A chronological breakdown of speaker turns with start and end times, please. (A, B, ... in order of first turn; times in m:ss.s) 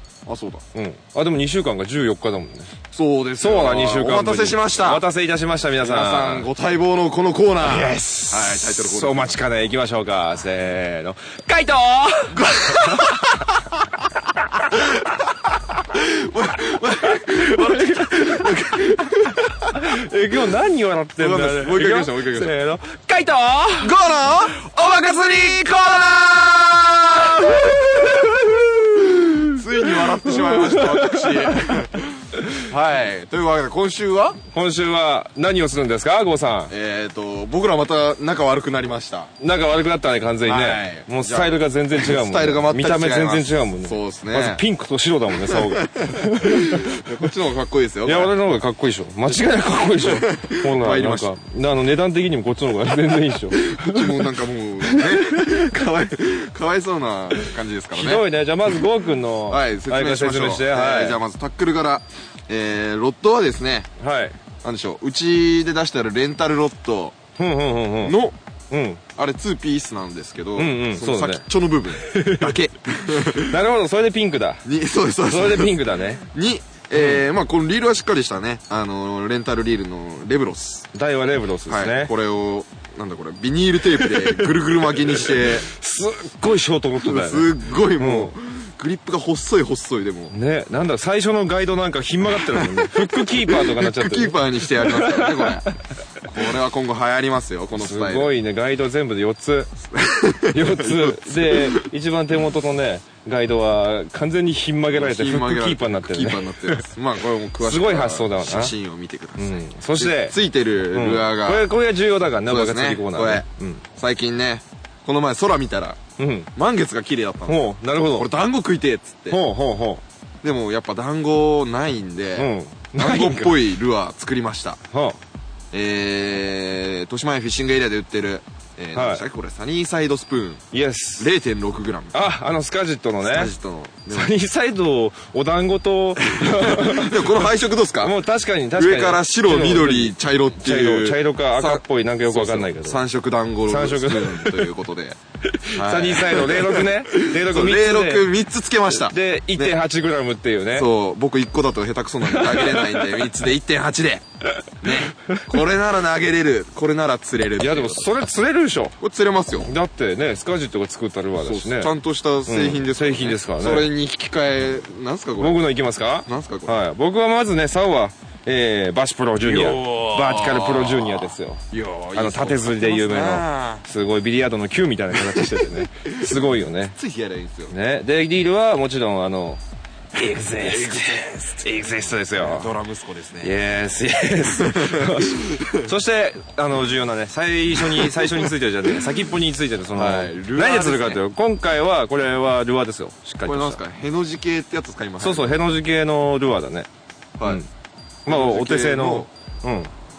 0:00.2-0:00.6 A
0:00.7-0:02.8 B
0:02.9-0:05.0 A
0:03.4-0:06.5 B
0:05.8-0:09.4 A
0:07.6-0:13.2 B
0:12.3-0:13.5 A
0:14.7-0:20.0 A
0:17.1-0:24.0 B
0:21.2-0:22.5 A
0:23.8-0:34.4 A
0:24.5-0:25.4 B
0:29.8-0:31.8 B
0:34.5-0:36.7 B
0:36.7-0:39.3 A
0:39.4-0:47.0 B
0:40.4-0:44.6 A
0:45.4-0:48.4 A
0:48.0-0:55.7 B
0:50.0-0:51.3 A
0:53.5-0:58.8 A
0:57.4-1:01.2 B
0:59.5-1:03.9 A
1:04.0-1:04.4 B
1:04.6-1:07.2 A
1:07.4-1:08.2 B
1:08.0-1:08.4 A
1:08.7-1:09.0 B
1:09.1-1:13.6 A
1:10.6-1:12.6 B
1:13.1-1:14.7 B
1:14.6-1:20.9 A
1:15.2-1:16.2 B
1:16.9-1:17.2 B
1:20.9-1:22.1 B
1:21.7-1:25.7 A
1:24.0-1:24.5 B
1:25.1-1:28.3 B
1:27.0-1:30.3 A
1:30.3-1:35.7 B
1:32.3-1:35.6 A
1:36.2-1:38.3 A
1:37.8-1:39.7 B
1:39.9-1:41.8 A
1:40.5-1:46.8 B
1:44.9-1:51.7 A
1:47.6-1:48.8 B
1:49.4-1:50.4 B
1:50.9-1:53.8 B
1:52.5-1:53.4 A
1:54.0-1:56.0 A
1:56.2-1:56.5 B
1:56.6-1:59.4 A
1:57.5-1:58.3 B
1:59.3-2:00.0 B
2:00.4-2:04.8 A
2:02.4-2:03.6 B
2:04.9-2:05.2 B
2:05.7-2:10.6 A
2:08.9-2:09.2 B
2:10.7-2:11.3 B
2:11.2-2:12.2 A
2:12.1-2:13.5 B
2:13.2-2:14.3 A
2:14.1-2:23.0 B
2:16.2-2:18.2 A
2:18.7-2:25.2 A
2:23.6-2:24.7 B
2:25.5-2:28.3 B
2:25.7-2:29.8 A
2:28.9-2:30.9 B
2:30.7-2:34.2 A
2:32.3-2:33.2 B
2:34.8-2:38.1 A
2:37.6-2:39.0 B
2:39.0-2:39.7 A
2:39.6-2:41.9 B
2:41.4-2:45.6 A
2:42.4-2:43.9 B
2:45.4-2:51.6 B
2:46.2-2:46.8 A
2:49.4-2:53.8 A
2:52.1-2:57.0 B
2:55.1-2:57.7 A
2:57.7-2:59.6 B
3:00.1-3:02.7 B
3:00.2-3:01.6 A
3:02.3-3:03.6 A
3:03.4-3:13.8 B
3:04.5-3:05.9 A
3:07.8-3:08.9 A
3:09.9-3:11.2 A
3:13.4-3:15.6 A
3:15.2-3:16.9 B
3:17.4-3:17.6 A
3:17.4-3:17.7 B
3:18.2-3:19.9 B
3:18.3-3:19.3 A